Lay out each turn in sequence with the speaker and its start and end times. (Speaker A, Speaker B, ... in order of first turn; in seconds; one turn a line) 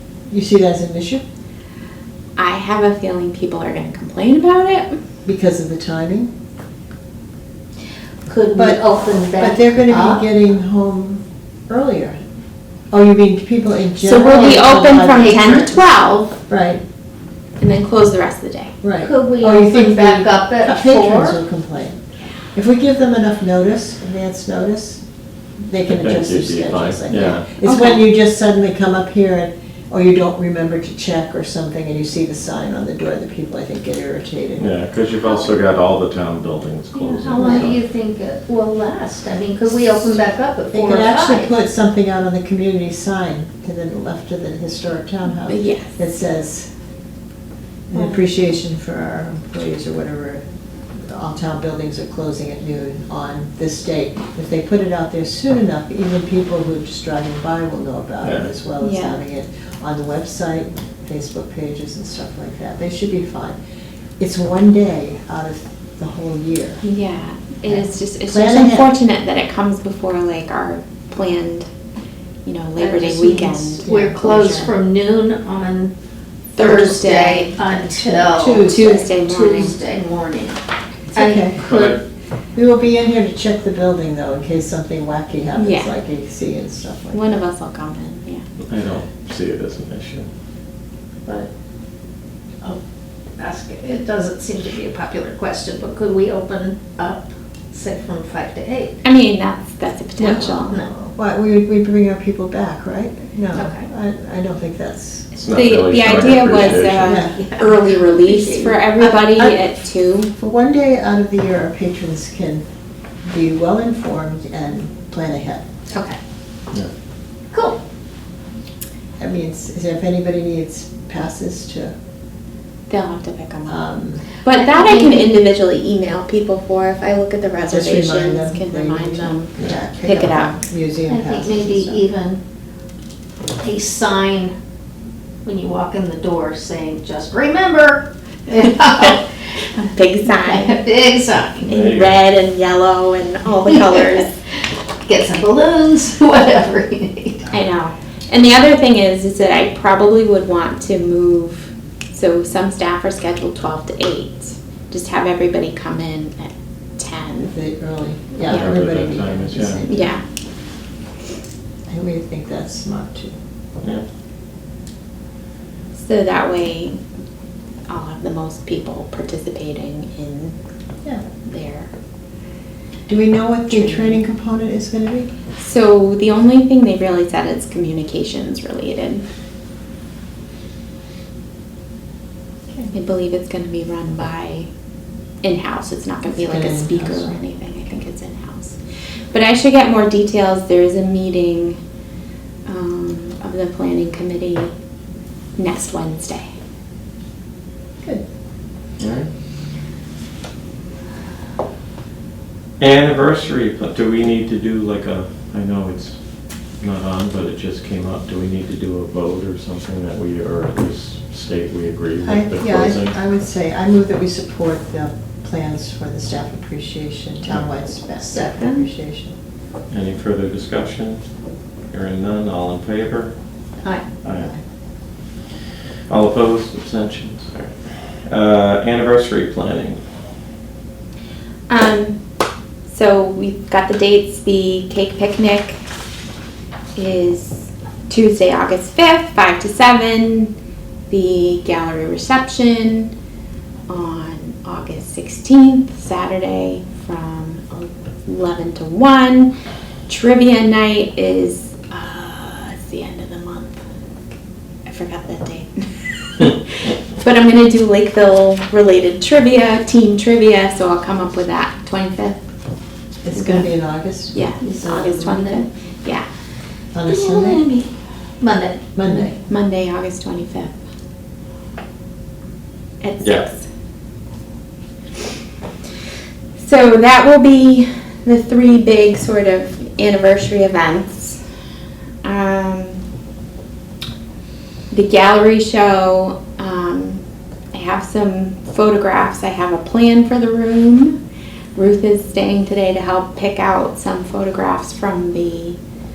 Speaker A: 0.3-1.2
Speaker B: 2.4-5.0
Speaker A: 5.2-6.3
Speaker C: 8.3-10.3
Speaker A: 8.5-12.2
Speaker A: 12.9-15.7
Speaker B: 14.0-16.3
Speaker C: 14.2-15.8
Speaker A: 16.5-16.8
Speaker B: 17.6-18.7
Speaker A: 18.8-22.0
Speaker C: 19.0-21.4
Speaker A: 22.5-25.0
Speaker A: 25.6-34.7
Speaker D: 25.9-27.5
Speaker B: 27.6-28.0
Speaker D: 34.6-37.8
Speaker C: 35.2-35.5
Speaker C: 36.9-41.5
Speaker A: 39.7-40.1
Speaker A: 40.7-46.7
Speaker B: 45.5-46.0
Speaker A: 47.9-50.4
Speaker C: 47.9-48.2
Speaker A: 51.1-63.5
Speaker D: 58.2-58.5
Speaker B: 58.8-59.2
Speaker A: 64.2-66.8
Speaker B: 66.8-71.7
Speaker A: 67.7-68.9
Speaker B: 72.4-74.7
Speaker C: 72.8-75.9
Speaker A: 73.8-74.3
Speaker C: 76.5-80.6
Speaker B: 76.6-79.8
Speaker A: 78.1-79.1
Speaker A: 81.1-81.6
Speaker C: 81.1-82.0
Speaker D: 81.6-82.0
Speaker A: 82.5-87.2
Speaker B: 85.5-85.9
Speaker B: 87.1-88.4
Speaker D: 88.7-90.3
Speaker C: 91.2-91.5
Speaker C: 93.4-99.0
Speaker B: 99.0-100.8
Speaker A: 100.2-105.3
Speaker C: 100.7-101.1
Speaker C: 103.5-103.8
Speaker D: 105.4-107.2
Speaker B: 105.4-110.3
Speaker A: 107.0-107.4
Speaker C: 107.3-109.2
Speaker A: 110.3-112.6
Speaker A: 113.3-115.6
Speaker C: 115.9-116.2
Speaker C: 117.5-117.8
Speaker A: 119.2-121.9
Speaker B: 122.9-123.8
Speaker A: 123.7-124.2
Speaker B: 124.4-130.5
Speaker C: 124.5-125.4
Speaker A: 127.7-132.0
Speaker C: 131.1-132.4
Speaker C: 133.6-134.5
Speaker C: 135.4-139.2
Speaker C: 139.8-141.7
Speaker B: 139.9-140.8
Speaker D: 141.6-142.2
Speaker B: 141.7-144.3
Speaker C: 143.7-144.1
Speaker C: 145.0-147.5
Speaker B: 147.5-157.5
Speaker A: 157.5-160.1
Speaker D: 158.5-159.8
Speaker B: 159.8-160.2
Speaker A: 161.9-163.3
Speaker B: 165.9-167.0
Speaker B: 167.9-170.5
Speaker B: 171.4-171.9
Speaker A: 173.1-175.3
Speaker B: 173.7-174.2
Speaker B: 175.6-179.2
Speaker B: 182.9-184.7
Speaker B: 185.4-188.8
Speaker A: 186.3-187.4
Speaker B: 189.3-191.8
Speaker B: 192.7-194.7
Speaker B: 195.6-196.5
Speaker D: 199.0-199.3
Speaker D: 202.8-206.2
Speaker D: 206.8-213.1
Speaker A: 212.2-219.3
Speaker B: 218.3-218.8
Speaker D: 219.9-221.2
Speaker D: 221.9-223.3
Speaker D: 224.2-224.5
Speaker A: 224.3-224.6
Speaker D: 226.1-230.0
Speaker B: 231.7-232.2
Speaker B: 232.9-235.8
Speaker B: 236.9-240.5
Speaker B: 241.1-243.1
Speaker B: 243.9-249.5
Speaker B: 250.1-253.8
Speaker B: 254.8-262.4
Speaker A: 263.2-265.1
Speaker B: 263.3-263.7
Speaker B: 264.3-266.3
Speaker C: 264.6-265.7
Speaker A: 266.9-267.6
Speaker C: 267.1-268.9
Speaker A: 268.9-269.3
Speaker B: 269.1-270.7
Speaker B: 273.0-273.6
Speaker D: 273.2-273.5
Speaker B: 276.6-281.4
Speaker B: 282.2-283.0
Speaker B: 284.9-291.2
Speaker B: 291.7-295.8